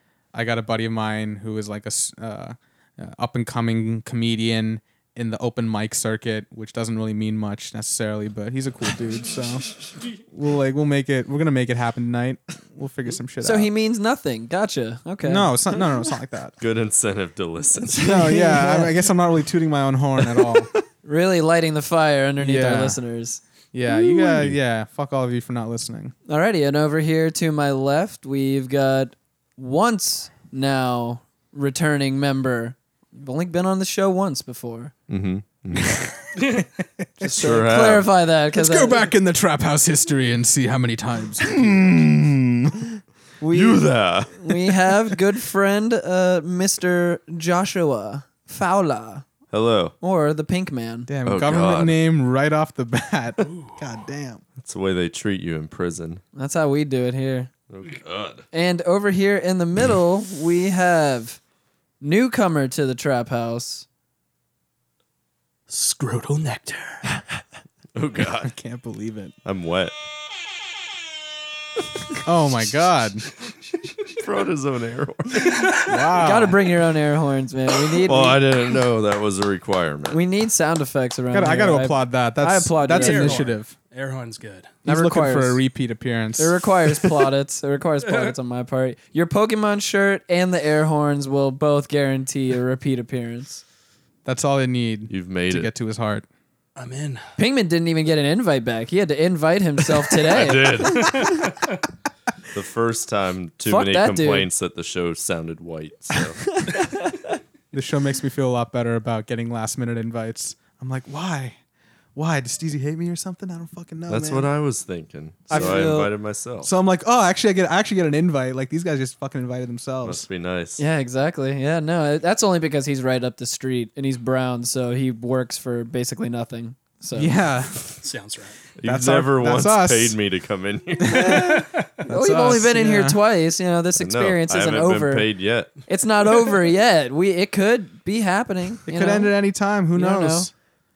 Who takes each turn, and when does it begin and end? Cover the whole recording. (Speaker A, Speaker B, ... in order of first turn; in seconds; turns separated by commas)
Speaker A: 0.3-9.7, Speaker A: 10.3-13.7, Speaker B: 13.4-15.6, Speaker A: 15.2-16.6, Speaker C: 16.6-18.2, Speaker A: 18.0-20.7, Speaker B: 18.0-19.0, Speaker B: 21.0-23.4, Speaker A: 22.4-23.0, Speaker A: 23.7-26.1, Speaker B: 26.2-34.9, Speaker C: 35.1-36.1, Speaker A: 36.5-37.6, Speaker C: 37.2-38.1, Speaker B: 37.4-39.0, Speaker A: 38.5-42.9, Speaker B: 43.4-49.2, Speaker C: 43.5-44.8, Speaker C: 49.5-49.9, Speaker B: 50.0-51.1, Speaker A: 51.1-54.4, Speaker C: 51.2-51.9, Speaker D: 53.4-53.8, Speaker C: 54.6-56.2, Speaker B: 56.4-57.5, Speaker C: 57.7-58.4, Speaker B: 58.5-61.4, Speaker B: 62.0-63.9, Speaker D: 65.7-67.0, Speaker C: 67.9-68.5, Speaker A: 68.4-69.3, Speaker C: 69.4-69.9, Speaker A: 72.2-73.2, Speaker C: 74.2-75.7, Speaker A: 75.8-76.6, Speaker B: 76.2-78.4, Speaker C: 78.0-80.2, Speaker B: 80.1-83.5, Speaker A: 81.3-83.7, Speaker D: 82.9-84.7, Speaker B: 84.8-85.6, Speaker A: 84.8-86.6, Speaker B: 86.4-93.6, Speaker D: 88.0-88.3, Speaker A: 94.2-96.3, Speaker C: 95.1-95.7, Speaker D: 96.8-97.2, Speaker B: 97.4-101.4, Speaker C: 100.2-101.4, Speaker D: 101.2-101.7, Speaker C: 102.5-106.6, Speaker B: 103.7-104.5, Speaker B: 106.6-107.1, Speaker A: 107.7-111.6, Speaker A: 112.1-114.5, Speaker C: 114.1-116.7, Speaker B: 115.5-116.1, Speaker A: 115.5-115.9, Speaker A: 116.6-120.2, Speaker C: 120.0-120.8, Speaker B: 120.8-127.4, Speaker A: 127.1-127.9, Speaker D: 128.0-128.6, Speaker C: 128.8-131.4, Speaker A: 128.8-130.2, Speaker A: 131.1-133.2, Speaker D: 131.4-131.9, Speaker B: 132.1-135.3, Speaker C: 134.0-135.7, Speaker B: 135.9-139.3, Speaker A: 138.9-140.5, Speaker B: 139.9-140.5